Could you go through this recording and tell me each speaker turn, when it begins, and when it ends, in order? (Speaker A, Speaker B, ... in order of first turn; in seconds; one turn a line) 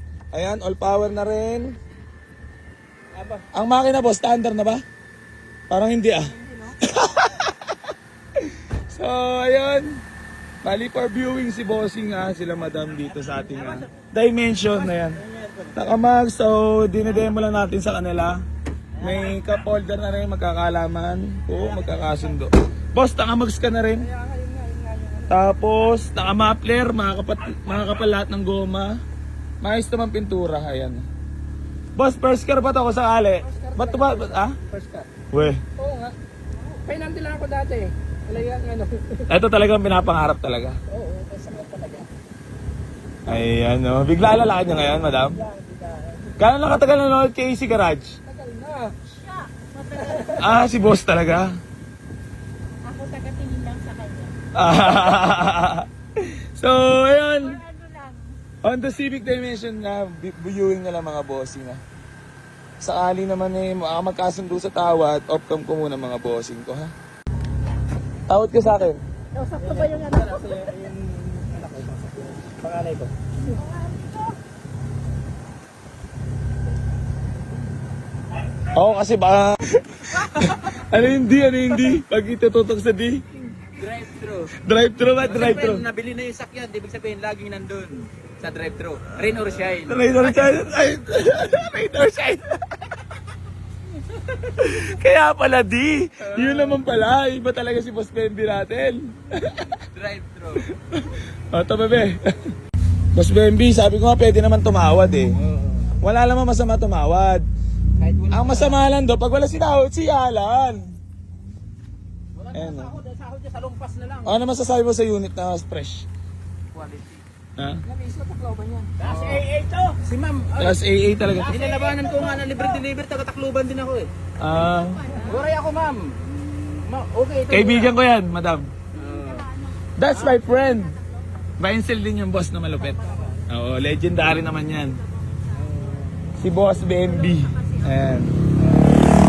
Speaker A: 0.3-1.8
Speaker B: 3.1-3.4
Speaker A: 3.5-4.8
Speaker A: 5.7-7.8
Speaker C: 6.3-6.7
Speaker A: 8.4-10.0
Speaker A: 10.6-18.4
Speaker B: 13.4-13.8
Speaker A: 19.0-24.1
Speaker B: 21.7-22.2
Speaker C: 24.0-25.5
Speaker A: 25.3-29.0
Speaker A: 29.6-31.1
Speaker A: 32.0-34.6
Speaker C: 33.4-35.1
Speaker A: 35.3-35.6
Speaker C: 35.8-36.1
Speaker C: 36.7-39.3
Speaker A: 39.3-40.8
Speaker C: 40.9-42.1
Speaker A: 43.3-45.4
Speaker C: 45.0-46.4
Speaker A: 46.4-48.2
Speaker C: 48.3-49.0
Speaker D: 49.1-50.7
Speaker C: 50.0-50.5
Speaker A: 50.4-51.6
Speaker D: 52.8-54.4
Speaker A: 54.5-57.6
Speaker D: 57.4-58.4
Speaker A: 58.6-61.8
Speaker A: 62.8-66.9
Speaker A: 68.3-69.0
Speaker D: 69.4-70.3
Speaker C: 69.5-73.6
Speaker A: 78.7-83.2
Speaker B: 83.8-84.5
Speaker A: 84.6-85.8
Speaker B: 85.2-90.5
Speaker A: 89.8-92.6
Speaker A: 94.5-99.7
Speaker B: 96.2-96.8
Speaker B: 99.9-100.7
Speaker A: 100.7-102.2
Speaker A: 103.2-105.4
Speaker B: 105.3-105.9
Speaker A: 106.0-107.5
Speaker B: 108.0-108.8
Speaker A: 108.3-111.0
Speaker B: 112.3-114.4
Speaker A: 112.5-113.0
Speaker A: 114.3-116.1
Speaker B: 116.7-117.2
Speaker A: 117.6-117.8
Speaker C: 117.8-118.9
Speaker B: 119.0-120.8
Speaker A: 120.6-121.6
Speaker B: 121.3-124.1
Speaker C: 121.9-122.8
Speaker D: 122.1-122.5
Speaker A: 124.4-125.1
Speaker D: 124.5-125.6
Speaker C: 125.1-125.4
Speaker B: 125.2-127.9
Speaker D: 126.3-126.6
Speaker A: 127.5-128.7
Speaker B: 128.9-129.5
Speaker D: 128.9-131.6
Speaker A: 130.0-131.0
Speaker A: 131.6-135.0
Speaker B: 132.8-133.4
Speaker C: 132.9-133.4
Speaker D: 134.2-136.2
Speaker B: 135.6-136.3
Speaker A: 136.4-138.3
Speaker D: 136.8-138.2